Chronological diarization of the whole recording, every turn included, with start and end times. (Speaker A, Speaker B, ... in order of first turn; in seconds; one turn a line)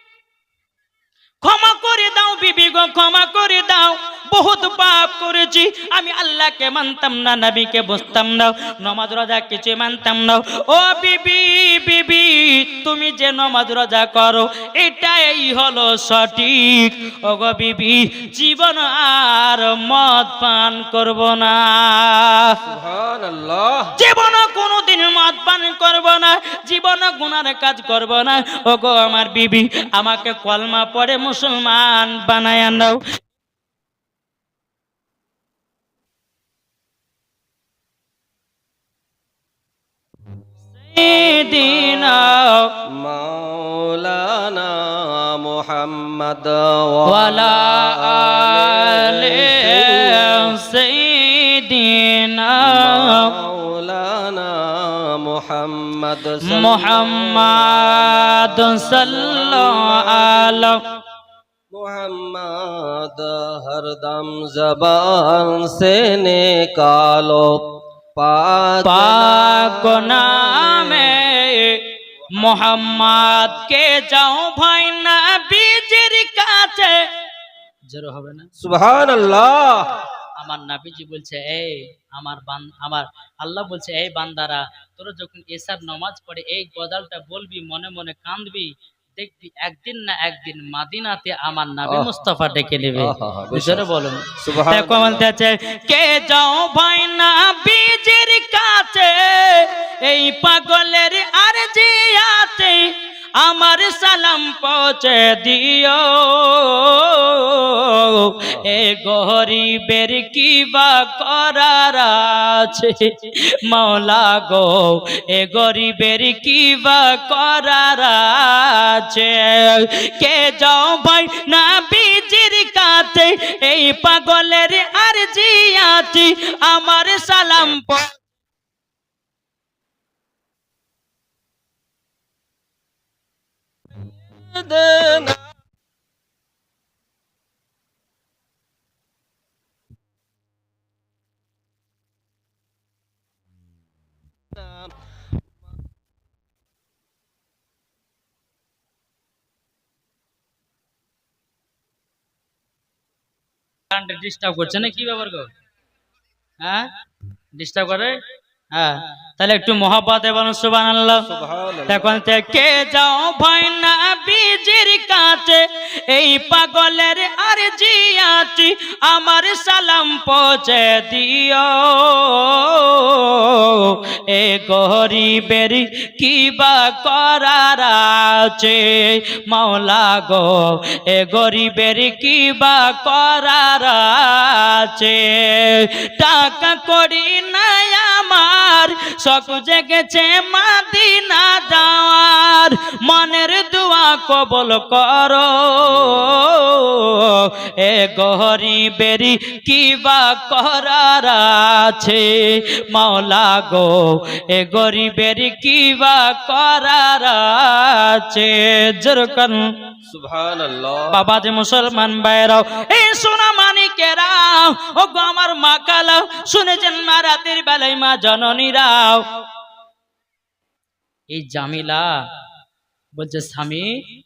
Speaker A: 1.4-22.6
Speaker B: 22.6-23.9
Speaker A: 23.9-33.0
Speaker A: 40.7-42.7
Speaker B: 41.0-50.5
Speaker A: 47.0-53.3
Speaker B: 52.6-60.8
Speaker A: 56.4-60.8
Speaker B: 61.7-71.3
Speaker A: 68.8-77.0
Speaker B: 72.3-73.2
Speaker A: 77.9-78.5
Speaker B: 78.6-79.9
Speaker A: 80.4-128.1
Speaker B: 91.8-92.1
Speaker B: 93.0-95.3
Speaker B: 134.3-135.4
Speaker B: 144.5-144.9
Speaker A: 153.9-155.5
Speaker A: 156.6-156.9
Speaker A: 157.6-158.2
Speaker A: 158.7-161.2
Speaker B: 161.2-162.2
Speaker A: 161.9-209.6
Speaker B: 195.9-196.3
Speaker B: 210.1-211.2
Speaker A: 211.1-219.2
Speaker A: 221.3-222.1
Speaker A: 223.2-224.0